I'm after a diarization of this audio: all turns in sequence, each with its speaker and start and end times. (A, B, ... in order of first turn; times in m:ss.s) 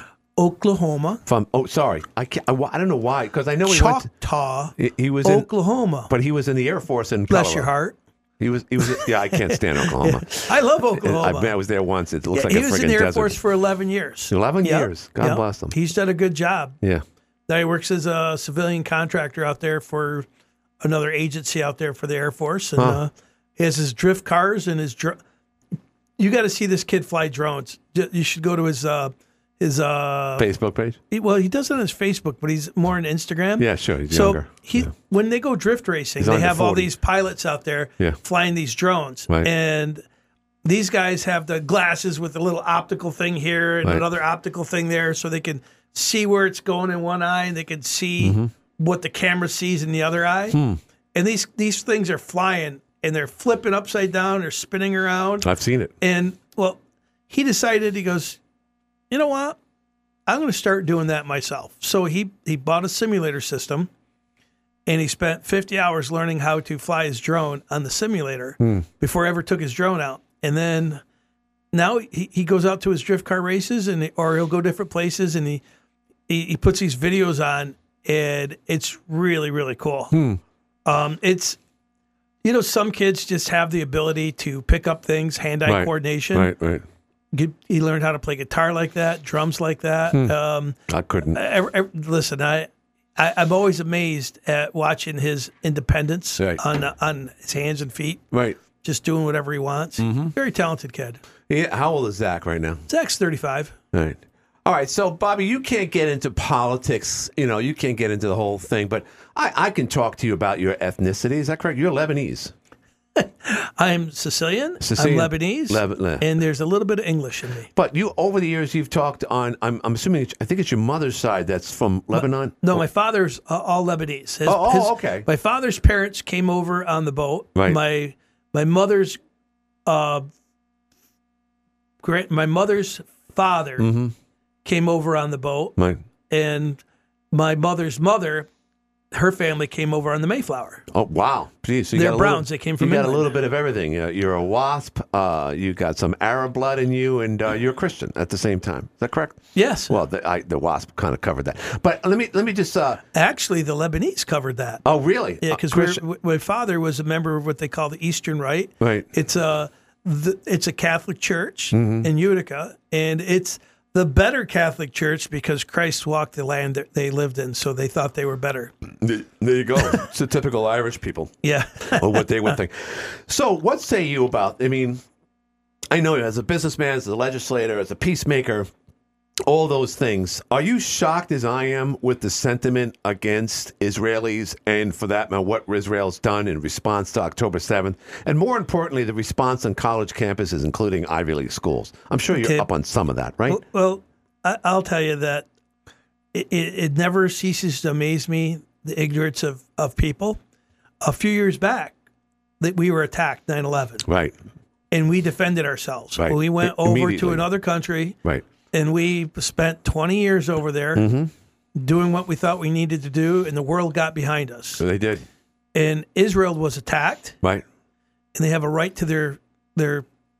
0:00.4-0:01.2 A
0:01.2-0:04.1 B
0:03.6-0:06.1 A
0:04.8-0:05.5 B
0:06.1-0:07.7 B
0:07.3-0:08.0 A
0:08.4-0:13.4 B
0:08.8-0:11.5 A
0:12.3-0:16.8 A
0:14.3-0:15.7 B
0:17.5-0:20.2 A
0:20.8-0:25.2 A
0:26.2-0:30.4 A
0:30.4-0:31.0 B
0:31.1-0:40.0 A
0:33.6-0:34.9 B
0:36.2-0:36.9 B
0:40.6-0:50.6 A
0:48.2-0:48.5 B
0:50.5-0:50.8 B
0:51.1-0:55.5 A
0:55.4-0:55.9 B
0:56.0-0:58.4 A
0:59.1-0:59.6 A
1:00.3-1:03.9 A
1:04.8-1:11.0 A
1:11.7-1:15.6 A
1:16.3-1:20.2 A
1:20.1-1:20.4 B
1:20.8-1:21.6 A
1:22.4-1:26.5 A
1:25.6-1:26.8 B
1:27.3-1:30.8 A
1:30.9-1:31.4 B
1:31.3-1:38.2 A
1:38.3-1:38.6 B
1:38.8-1:41.2 A
1:40.0-1:40.3 B
1:41.5-1:42.8 B
1:42.9-1:43.7 A
1:43.9-1:52.5 B
1:53.2-1:57.7 A
1:54.8-1:56.3 B
1:57.7-2:02.8 B
2:02.1-2:09.2 A
2:04.4-2:05.3 B
2:09.8-2:10.3 A
2:12.0-2:13.9 A
2:13.8-2:14.1 B
2:14.6-2:15.7 A
2:16.3-2:18.5 A
2:19.1-2:20.8 A
2:20.9-2:33.0 B
2:21.9-2:23.3 A
2:29.5-2:29.9 A
2:33.1-2:34.8 A
2:34.8-2:36.0 B
2:35.4-2:48.7 A
2:38.8-2:39.1 B
2:41.7-2:42.1 B
2:49.0-2:51.3 B
2:51.4-2:52.6 A
2:51.9-2:55.0 B
2:55.9-2:58.7 B
2:59.4-3:13.6 B
3:12.3-3:12.7 A
3:13.5-3:15.4 A
3:16.3-3:20.4 A
3:21.0-3:21.9 A
3:22.6-3:24.1 A
3:24.0-3:24.3 B
3:24.9-3:28.2 A
3:26.2-3:27.4 B
3:28.7-3:31.0 A
3:31.0-3:31.3 B
3:31.8-3:34.8 A
3:34.8-3:35.2 B
3:35.7-3:37.4 A
3:38.3-3:40.0 A